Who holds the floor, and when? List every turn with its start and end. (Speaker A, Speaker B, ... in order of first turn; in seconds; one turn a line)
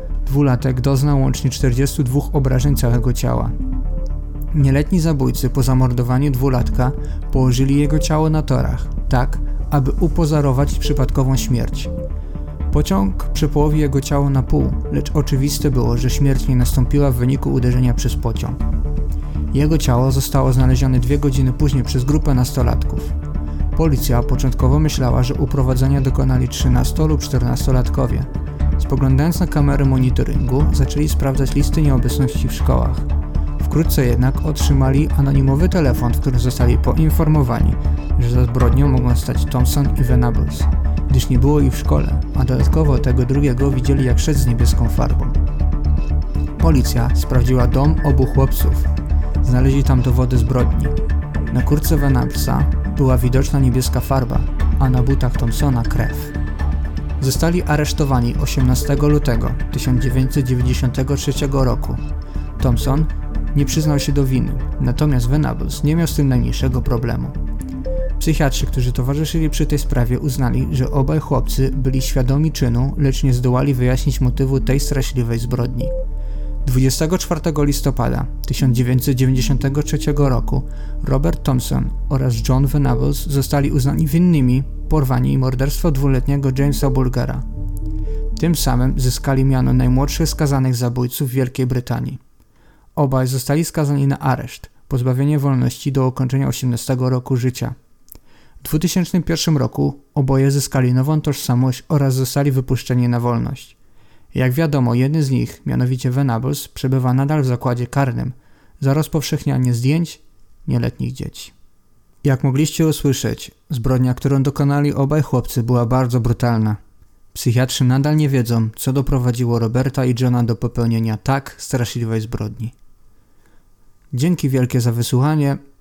Speaker A: 0.2-3.5
Speaker A: 4.5-11.9
Speaker A: 12.7-18.6
Speaker A: 19.5-23.1
Speaker A: 23.7-33.1
Speaker A: 33.6-45.4
Speaker A: 46.6-48.9
Speaker A: 49.4-50.9
Speaker A: 51.5-56.3
Speaker A: 57.2-62.0
Speaker A: 62.6-67.3
Speaker A: 68.2-75.9
Speaker A: 76.6-87.4
Speaker A: 88.3-92.2
Speaker A: 93.0-97.8
Speaker A: 98.6-103.8
Speaker A: 104.3-111.5
Speaker A: 112.2-116.8
Speaker A: 117.3-122.7
Speaker A: 124.1-125.6